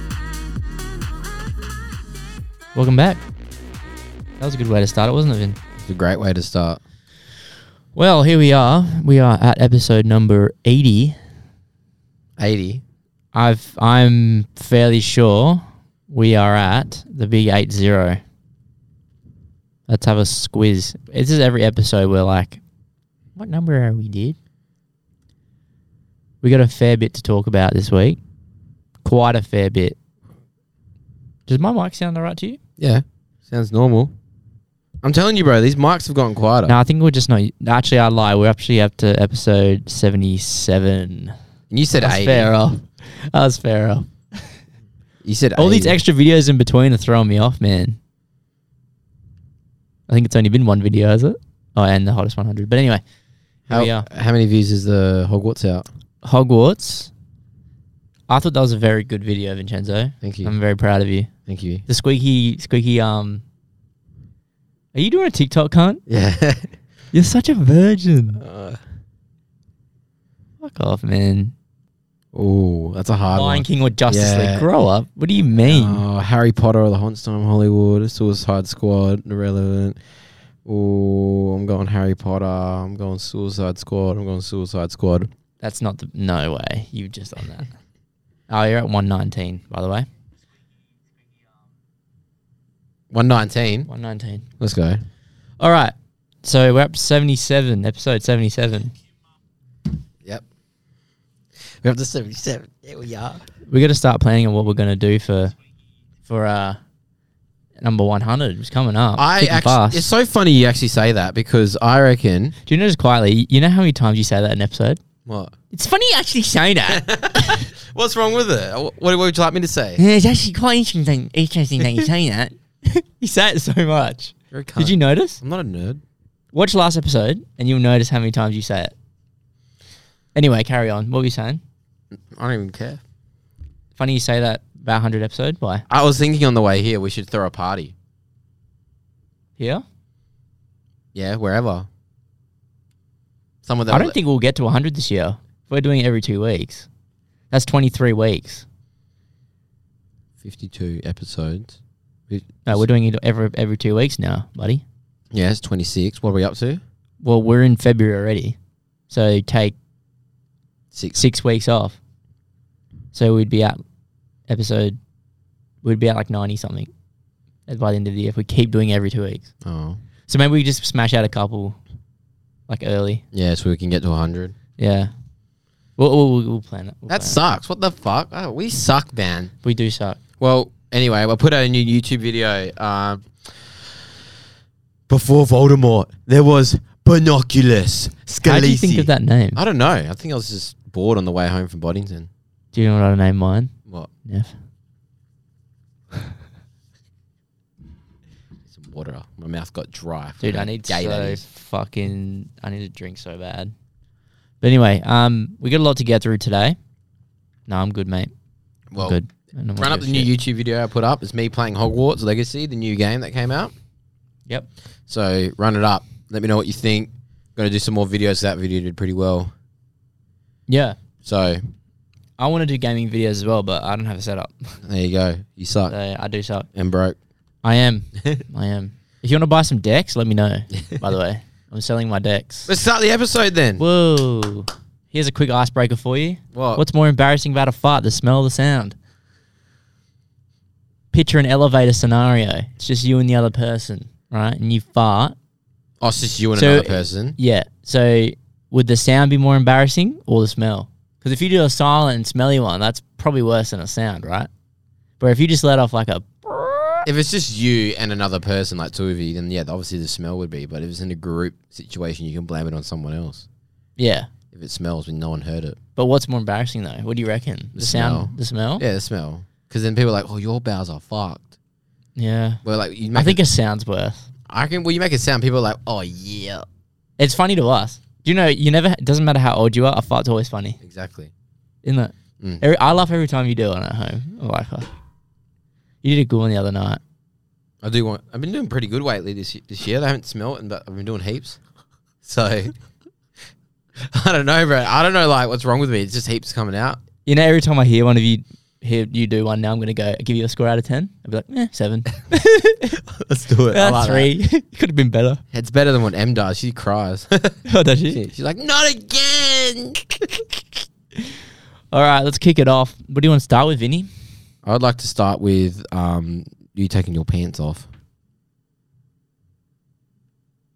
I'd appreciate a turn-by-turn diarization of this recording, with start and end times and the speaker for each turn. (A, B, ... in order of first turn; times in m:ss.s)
0:02.8-0:03.2 A
0:04.4-0:05.6 A
0:05.8-0:06.8 B
0:08.0-0:11.2 A
0:12.4-0:12.8 B
0:13.3-0:18.2 A
0:19.9-0:22.6 A
0:23.4-0:24.4 A
0:26.4-0:28.2 A
0:29.0-0:30.0 A
0:31.5-0:32.6 A
0:32.8-0:34.1 B
0:35.0-0:36.8 B
0:36.7-0:41.4 A
0:41.7-0:42.5 B
0:42.0-0:44.5 A
0:45.2-0:46.0 B
0:45.6-0:48.0 A
0:50.1-0:53.0 A
0:53.7-0:54.1 A
0:53.7-0:55.9 B
0:56.2-0:57.1 A
0:58.3-1:01.3 A
1:00.2-1:00.6 B
1:01.5-1:01.8 B
1:01.9-1:03.4 A
1:04.9-1:06.0 A
1:06.1-1:06.7 B
1:07.1-1:08.4 A
1:08.4-1:08.8 B
1:10.6-1:11.5 A
1:12.3-1:14.7 B
1:13.3-1:16.0 A
1:15.6-1:20.0 B
1:20.6-1:25.3 B
1:25.6-1:27.7 A
1:28.5-1:30.1 A
1:33.1-1:33.9 B
1:33.9-1:34.5 A
1:34.6-1:35.0 B
1:35.6-1:38.9 A
1:41.8-1:43.4 B
1:43.7-1:45.5 A
1:46.3-1:46.8 A
1:47.8-1:50.1 A
1:49.2-1:52.6 B
1:52.7-1:55.0 A
1:55.3-1:55.5 B
1:55.7-1:57.6 A
1:56.9-2:00.0 B
2:00.0-2:05.4 A
2:04.5-2:06.0 B
2:06.5-2:08.9 A
2:10.4-2:11.6 A
2:12.3-2:13.0 B
2:14.0-2:15.8 A
2:15.9-2:17.9 B
2:19.6-2:19.8 A
2:21.1-2:21.9 B
2:23.6-2:24.2 B
2:23.9-2:26.9 A
2:27.5-2:28.6 A
2:30.4-2:31.8 B
2:32.3-2:32.9 B
2:32.6-2:34.8 A
2:35.3-2:36.8 B
2:37.2-2:38.6 A
2:39.1-2:39.8 A
2:40.9-2:41.2 B
2:41.2-2:42.0 A
2:43.1-2:43.8 A
2:44.5-2:45.0 A
2:45.8-2:46.9 A
2:47.7-2:49.5 A
2:49.6-2:50.0 B
2:50.3-2:51.8 A
2:52.7-2:53.2 A
2:53.3-2:54.6 B
2:54.8-2:55.1 A
2:56.0-2:57.4 A
2:57.1-2:59.5 B
2:59.6-3:00.2 A
3:00.4-3:04.1 B
3:05.1-3:12.3 B
3:08.4-3:09.6 A
3:12.7-3:13.7 A
3:14.2-3:14.5 A
3:18.7-3:21.4 B
3:20.4-3:23.7 A
3:24.6-3:26.8 A
3:27.7-3:28.3 A
3:28.9-3:29.2 B
3:29.0-3:30.3 A
3:29.8-3:33.7 B
3:35.1-3:39.5 B
3:40.7-3:41.0 A
3:41.2-3:41.6 B
3:42.4-3:44.8 A
3:44.8-3:45.9 B
3:45.9-3:46.7 A
3:46.7-3:47.2 B
3:47.6-3:52.7 A
3:52.7-3:53.8 B
3:53.8-3:59.0 A
3:56.5-3:56.8 B
4:01.1-4:05.4 A
4:06.0-4:07.4 B
4:06.6-4:14.5 A
4:15.2-4:17.1 A
4:17.0-4:23.5 B
4:24.0-4:24.3 A
4:24.5-4:25.8 B
4:26.0-4:28.8 A
4:27.8-4:31.5 B
4:32.2-4:32.6 A
4:32.6-4:33.4 B
4:33.1-4:34.3 A
4:34.5-4:36.7 B
4:37.2-4:40.8 A
4:40.8-4:41.3 B
4:41.8-4:44.9 A
4:46.0-4:47.0 A
4:47.8-4:51.6 B
4:52.2-4:52.8 B
4:54.0-4:57.0 B
4:57.3-5:03.0 A
5:03.1-5:04.3 B
5:03.7-5:05.4 A
5:05.5-5:10.5 B
5:07.7-5:08.2 A
5:11.9-5:14.1 A
5:14.6-5:17.9 B